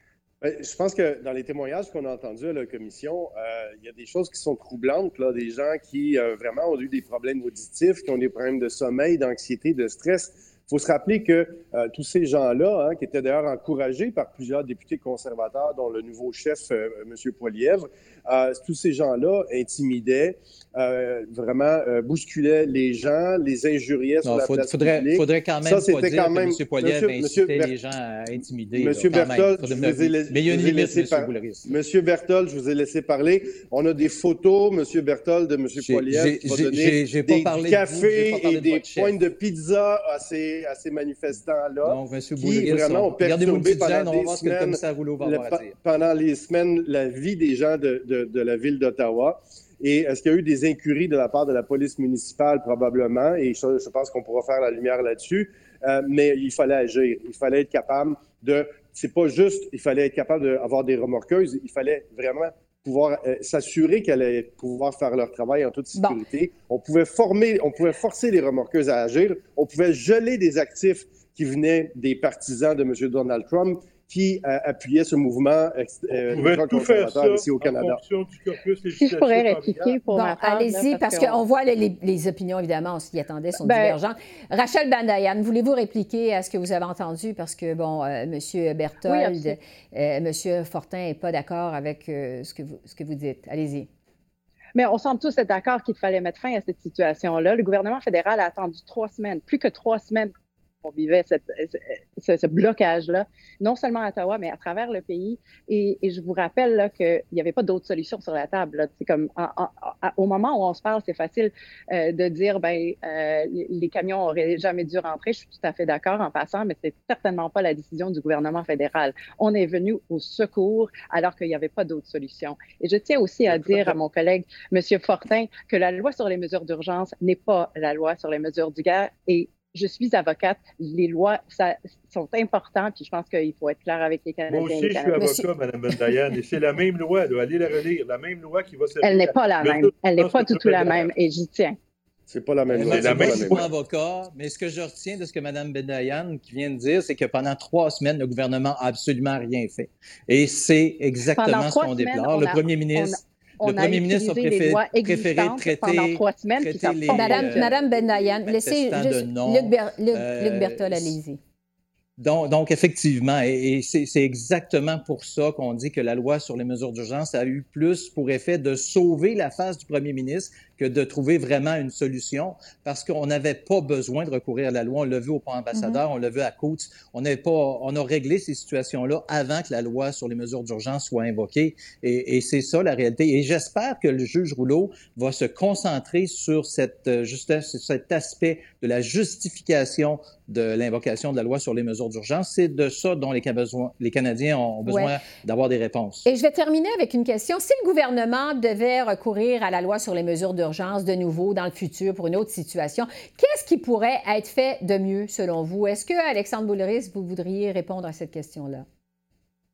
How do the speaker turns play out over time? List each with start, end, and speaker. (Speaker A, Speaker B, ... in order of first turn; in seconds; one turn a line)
Speaker A: 0.4-27.7
Speaker B: 24.2-31.8
Speaker A: 28.8-78.0
Speaker B: 35.8-39.1
Speaker B: 41.8-45.8
Speaker C: 66.0-66.2
Speaker D: 76.1-80.0
Speaker E: 79.0-81.4
Speaker C: 80.1-93.9
Speaker E: 83.6-84.0
Speaker E: 89.0-89.6
Speaker E: 94.8-135.4
Speaker D: 134.5-141.1
Speaker C: 135.2-135.4
Speaker E: 139.0-141.8
Speaker A: 142.3-143.7
Speaker B: 142.7-157.7
Speaker D: 142.8-143.7
Speaker E: 151.3-157.8
Speaker C: 157.1-161.4
Speaker B: 158.5-161.2
Speaker B: 162.2-196.3
Speaker C: 175.8-176.0
Speaker C: 194.9-195.1
Speaker C: 196.2-208.9